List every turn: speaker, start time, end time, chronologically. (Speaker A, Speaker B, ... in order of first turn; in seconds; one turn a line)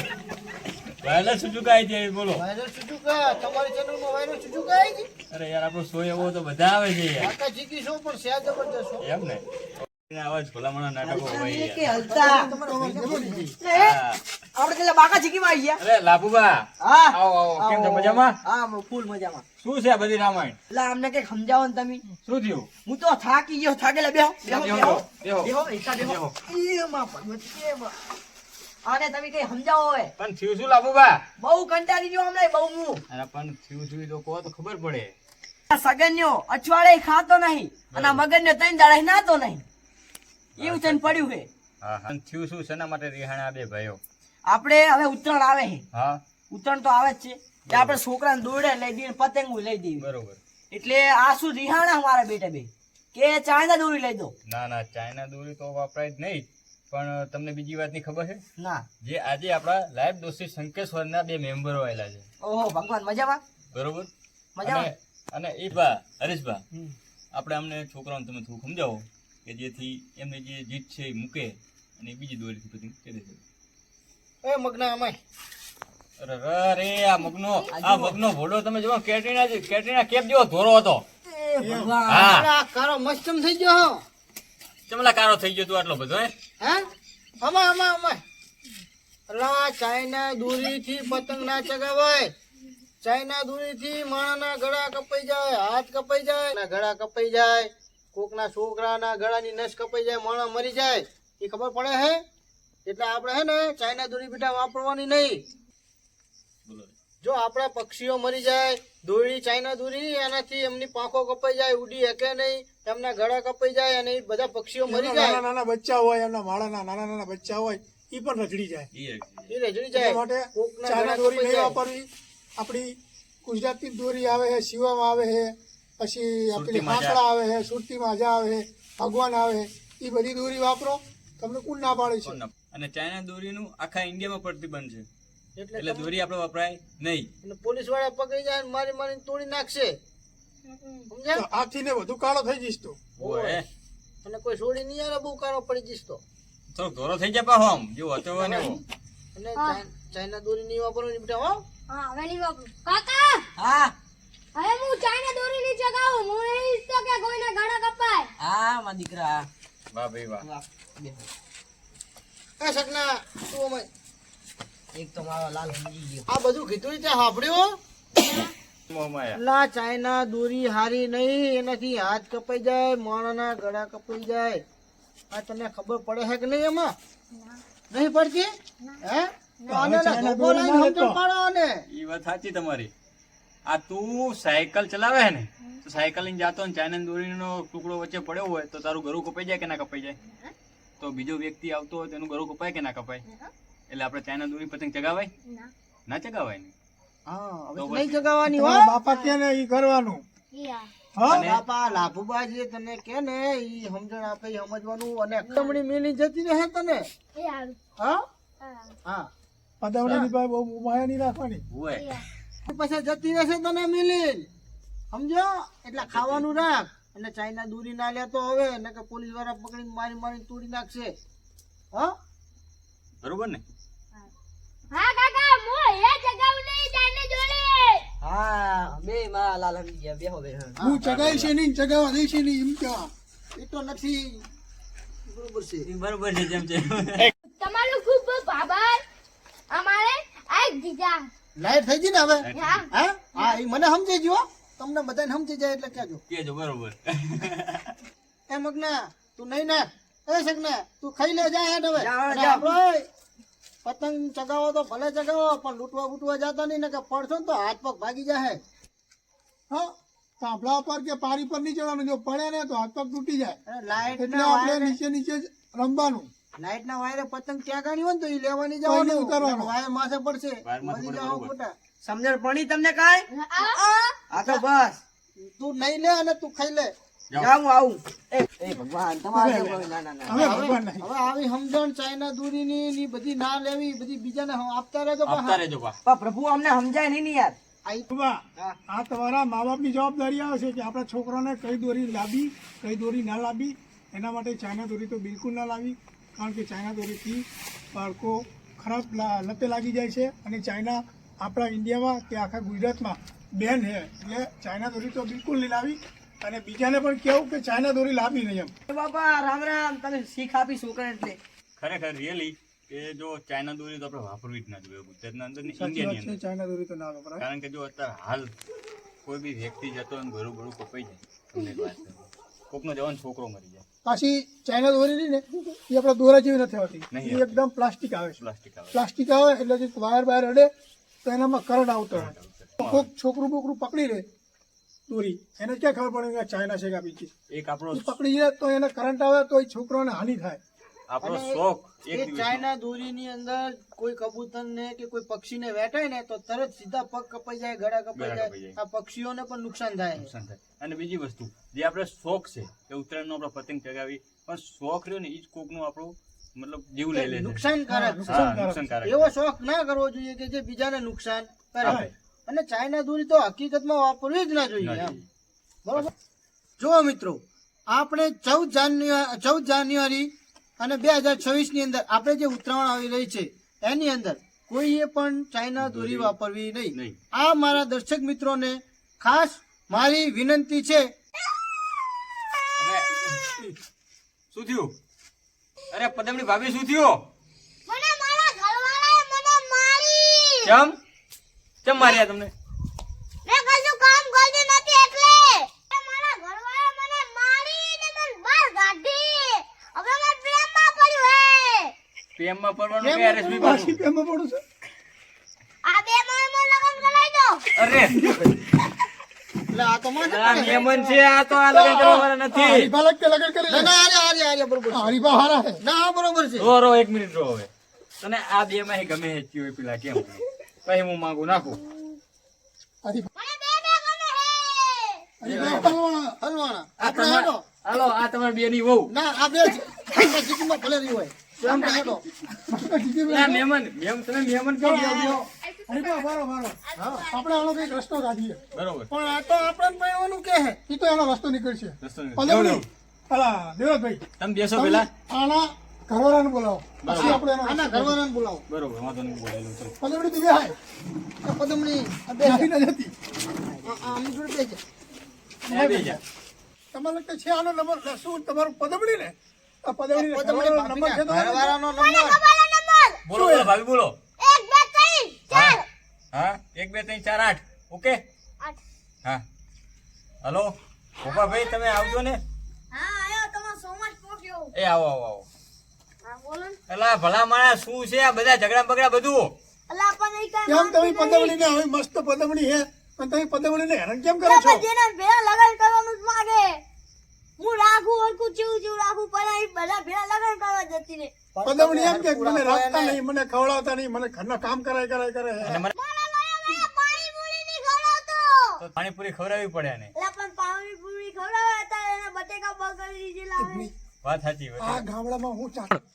Speaker A: 1.0-2.4
Speaker B: 2.3-5.1
Speaker A: 5.3-7.3
Speaker B: 7.2-9.0
Speaker A: 9.0-11.9
Speaker C: 11.0-12.5
Speaker B: 12.0-13.5
Speaker D: 12.2-13.5
Speaker C: 13.6-14.0
Speaker A: 13.7-14.2
Speaker C: 14.6-15.8
Speaker A: 15.8-18.4
Speaker C: 16.8-19.4
Speaker A: 19.6-20.6
Speaker C: 20.7-22.0
Speaker A: 22.2-22.7
Speaker C: 22.9-27.9
Speaker A: 24.4-26.4
Speaker C: 28.8-30.1
Speaker A: 30.2-31.2
Speaker C: 31.4-33.0
Speaker A: 33.1-35.1
Speaker C: 35.7-39.6
Speaker A: 37.9-38.2
Speaker A: 40.5-41.3
Speaker C: 40.6-41.5
Speaker A: 41.8-44.0
Speaker C: 44.4-45.8
Speaker A: 45.9-46.2
Speaker C: 46.5-50.0
Speaker A: 47.7-48.0
Speaker A: 50.0-50.4
Speaker C: 50.7-54.3
Speaker A: 54.5-58.4
Speaker C: 58.6-58.8
Speaker A: 59.0-62.3
Speaker C: 62.4-63.4
Speaker A: 63.7-64.1
Speaker C: 64.6-64.9
Speaker A: 64.6-66.6
Speaker A: 67.3-73.4
Speaker B: 74.4-75.2
Speaker A: 76.2-81.0
Speaker C: 77.7-78.2
Speaker C: 81.2-82.3
Speaker D: 81.6-82.0
Speaker A: 82.1-82.5
Speaker B: 82.3-84.0
Speaker A: 84.9-86.3
Speaker B: 87.4-88.2
Speaker B: 89.3-92.3
Speaker B: 93.0-102.2
Speaker B: 102.8-105.4
Speaker A: 106.7-106.9
Speaker B: 107.2-115.4
Speaker D: 114.8-118.9
Speaker A: 118.9-119.5
Speaker B: 119.5-121.8
Speaker D: 119.9-122.1
Speaker D: 122.6-132.4
Speaker A: 126.5-127.2
Speaker A: 132.2-135.1
Speaker B: 135.6-136.1
Speaker A: 135.8-137.3
Speaker B: 137.4-140.0
Speaker E: 140.7-141.1
Speaker B: 141.1-141.4
Speaker D: 141.3-143.0
Speaker A: 143.2-143.7
Speaker B: 143.2-143.6
Speaker B: 144.2-146.2
Speaker A: 146.7-148.8
Speaker B: 148.3-148.8
Speaker B: 149.3-151.6
Speaker E: 149.6-149.8
Speaker E: 151.9-153.5
Speaker C: 153.6-153.9
Speaker E: 154.5-158.3
Speaker C: 158.4-159.5
Speaker A: 159.9-160.5
Speaker C: 160.4-161.3
Speaker B: 162.6-163.9
Speaker C: 164.9-166.2
Speaker B: 166.3-167.8
Speaker E: 168.2-168.5
Speaker A: 168.9-169.4
Speaker B: 169.3-174.6
Speaker B: 175.3-176.9
Speaker B: 177.9-178.5
Speaker B: 179.0-181.8
Speaker D: 179.7-181.2
Speaker A: 181.9-182.9
Speaker A: 183.7-190.2
Speaker A: 191.0-193.2
Speaker A: 193.9-195.3
Speaker E: 195.4-195.7
Speaker A: 196.1-196.7
Speaker B: 197.2-198.9
Speaker A: 197.8-198.3
Speaker D: 198.5-200.2
Speaker E: 200.5-200.9
Speaker D: 201.2-201.5
Speaker A: 201.3-201.6
Speaker B: 201.3-207.1
Speaker E: 207.3-207.8
Speaker B: 208.0-208.2
Speaker E: 208.6-208.9
Speaker B: 209.0-209.3
Speaker D: 209.8-211.6
Speaker A: 211.7-212.1
Speaker E: 211.9-212.2
Speaker B: 212.7-214.5
Speaker B: 215.1-221.2
Speaker A: 216.0-216.5
Speaker A: 223.2-223.6
Speaker E: 224.9-228.0
Speaker C: 228.2-230.8
Speaker D: 230.8-233.1
Speaker A: 231.0-231.5
Speaker B: 233.5-234.4
Speaker B: 235.3-235.9
Speaker A: 235.8-237.3
Speaker E: 237.6-239.0
Speaker E: 239.7-241.3
Speaker B: 241.6-246.2
Speaker A: 242.4-242.8
Speaker E: 242.5-242.9
Speaker A: 246.3-247.9
Speaker B: 248.5-253.1
Speaker C: 251.9-252.7
Speaker B: 253.8-258.6
Speaker D: 259.7-263.6
Speaker B: 263.6-265.0
Speaker D: 264.2-266.3
Speaker B: 266.6-271.7
Speaker D: 268.8-269.7
Speaker A: 270.6-271.5
Speaker C: 272.0-275.0
Speaker E: 273.3-274.2
Speaker B: 274.3-274.6
Speaker B: 275.4-276.9
Speaker A: 277.3-277.6
Speaker C: 277.4-280.6
Speaker D: 279.3-281.1
Speaker B: 280.3-285.6
Speaker A: 285.2-286.0
Speaker C: 286.0-287.6
Speaker D: 288.1-308.7
Speaker C: 308.9-311.4
Speaker A: 311.8-316.4
Speaker D: 315.7-317.4
Speaker A: 317.4-318.5
Speaker A: 319.2-323.8
Speaker D: 324.0-328.4
Speaker A: 327.1-327.6
Speaker A: 328.4-329.0
Speaker D: 328.9-330.7
Speaker D: 331.2-334.2
Speaker A: 332.1-333.1
Speaker D: 335.1-337.3
Speaker A: 337.5-338.1
Speaker D: 337.9-340.6
Speaker A: 341.1-342.6
Speaker B: 341.2-350.3
Speaker A: 348.1-348.8
Speaker A: 350.2-357.6
Speaker B: 357.1-358.5
Speaker D: 357.9-358.9
Speaker A: 358.2-359.3
Speaker B: 359.0-365.2
Speaker A: 361.8-362.1
Speaker D: 361.8-362.1
Speaker A: 364.8-365.3
Speaker B: 366.8-381.1
Speaker A: 375.8-376.3
Speaker A: 382.8-383.7
Speaker A: 384.5-384.9
Speaker A: 385.9-387.2
Speaker E: 387.9-390.7
Speaker A: 390.6-391.0
Speaker A: 391.8-392.5
Speaker E: 393.4-401.9
Speaker A: 402.4-404.0
Speaker B: 403.0-403.7
Speaker D: 403.4-404.6
Speaker E: 405.8-407.7
Speaker A: 407.8-408.4
Speaker B: 409.7-410.9
Speaker A: 410.2-412.9
Speaker D: 411.7-413.9
Speaker B: 413.7-415.2
Speaker D: 414.9-415.8
Speaker B: 415.8-416.7
Speaker A: 416.6-417.7
Speaker A: 418.2-421.8
Speaker D: 423.0-423.3
Speaker E: 423.4-425.3
Speaker D: 425.4-426.4
Speaker A: 425.4-425.9
Speaker B: 426.4-427.6
Speaker A: 427.0-429.1
Speaker B: 429.1-432.2
Speaker A: 431.6-432.1
Speaker D: 432.6-433.6
Speaker A: 433.3-435.4
Speaker D: 434.8-438.6
Speaker B: 436.9-437.3
Speaker A: 438.7-439.1
Speaker B: 439.1-440.8
Speaker D: 440.9-444.2
Speaker A: 442.0-442.9
Speaker A: 444.4-445.1
Speaker D: 444.7-448.2
Speaker A: 447.0-447.4
Speaker B: 447.1-448.6
Speaker A: 448.7-449.9
Speaker D: 450.0-450.8
Speaker B: 451.4-452.7
Speaker D: 452.4-453.1
Speaker C: 453.5-454.1
Speaker B: 453.8-454.8
Speaker A: 455.7-456.2
Speaker D: 455.7-456.2
Speaker D: 456.9-461.8
Speaker B: 460.1-462.4
Speaker E: 461.9-463.2
Speaker A: 463.2-464.1
Speaker D: 463.3-463.7
Speaker E: 464.4-465.9
Speaker A: 465.5-465.8
Speaker A: 466.3-468.2
Speaker A: 470.4-472.4
Speaker E: 471.2-472.2
Speaker E: 472.9-474.7
Speaker A: 474.7-475.4
Speaker E: 476.2-476.8
Speaker A: 476.9-479.5
Speaker E: 479.9-481.6
Speaker D: 480.6-484.9
Speaker E: 484.4-486.8
Speaker E: 487.6-491.3
Speaker B: 491.5-493.2
Speaker D: 491.6-495.9
Speaker A: 495.6-495.9
Speaker E: 495.9-498.8
Speaker A: 498.8-500.1
Speaker E: 500.1-503.9
Speaker D: 503.6-503.9
Speaker A: 504.2-505.0
Speaker D: 504.8-506.0